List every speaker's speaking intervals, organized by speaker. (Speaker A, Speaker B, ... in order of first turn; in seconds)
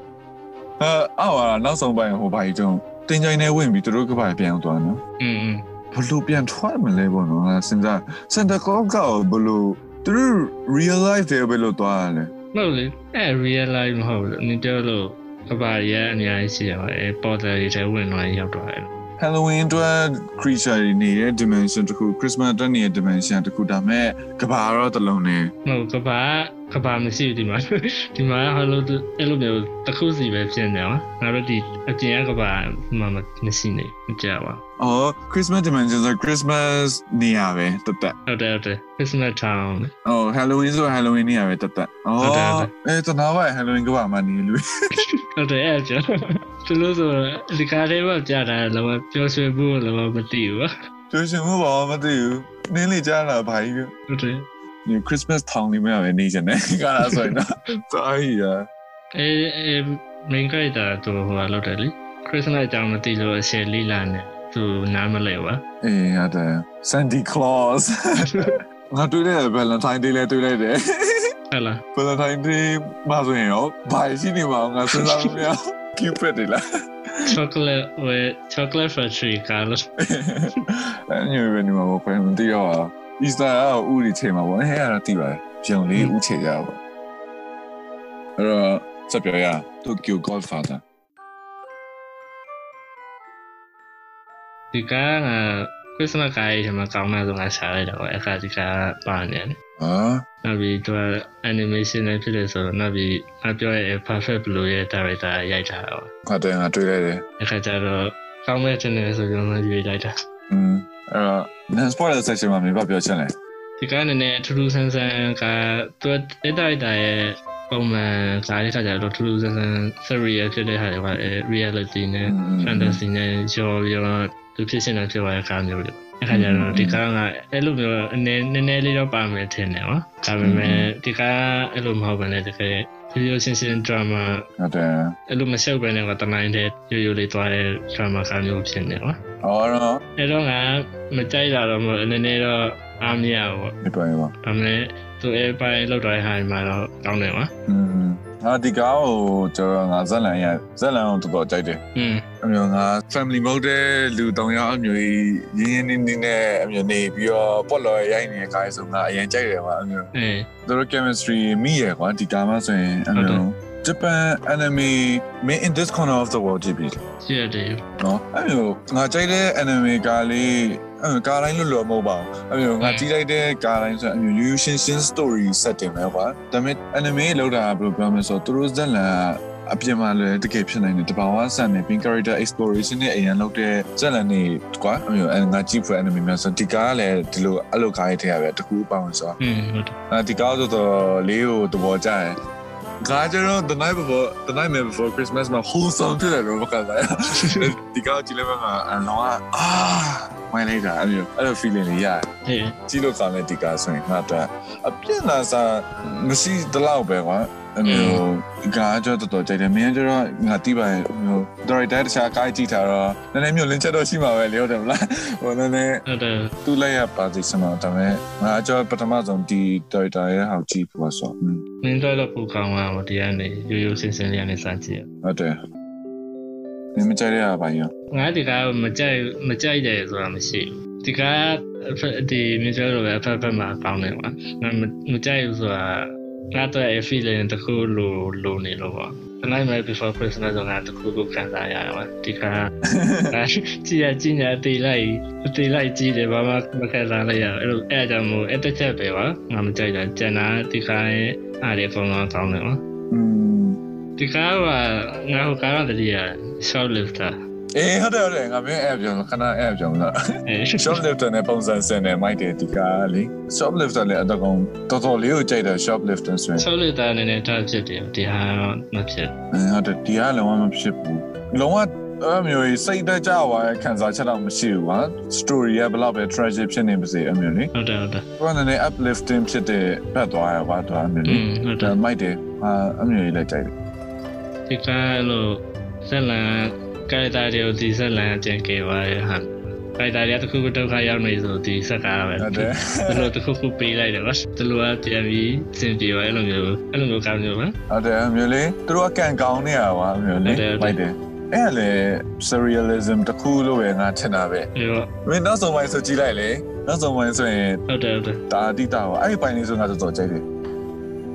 Speaker A: 0.8-5.0, 5.9-12.3, 19.2-25.5, 34.8-38.1, 40.0-45.0, 51.1-53.9, 54.9-58.7, 65.8-71.3, 71.9-76.6, 80.0-86.8, 88.4-90.8, 99.8-100.2, 106.2-107.2, 110.5-113.3, 122.2-123.0, 126.3-127.0, 130.4-130.9, 134.6-135.1, 139.4-140.0, 143.8-144.3, 147.7-151.8, 152.4-160.1, 160.7-167.0, 168.0-189.4, 190.1-192.4, 193.0-202.3, 202.9-216.0, 216.6-221.6, 225.2-225.6, 226.9-227.9, 242.9-243.3, 253.1-253.8, 257.8-260.1, 260.8-266.6, 269.5-277.7, 278.4-283.7, 292.4-293.3, 297.9-304.7, 305.2-307.8, 308.5-310.4
Speaker B: 5.2-5.7, 12.5-19.0, 25.6-34.6, 38.3-39.9, 42.2-42.7, 45.0-50.7, 54.1-54.5, 59.1-65.6, 68.2-68.5, 71.5-71.8, 74.9-75.4, 77.2-79.8, 94.7-99.6, 100.4-106.1, 107.4-110.1, 113.8-134.4, 135.3-139.2, 140.2-143.8, 144.4-147.5, 151.9-152.2, 160.1-160.5, 163.1-163.4, 167.2-167.8, 172.8-173.1, 189.4-189.9, 197.3-197.7, 202.4-202.8, 207.8-208.2, 216.1-216.6, 221.8-225.1, 228.1-242.7, 243.3-252.8, 254.2-257.4, 260.5-261.0, 266.6-269.3, 277.7-278.2, 281.2-281.9, 284.7-297.8, 300.4-301.0, 304.8-305.1, 307.9-308.4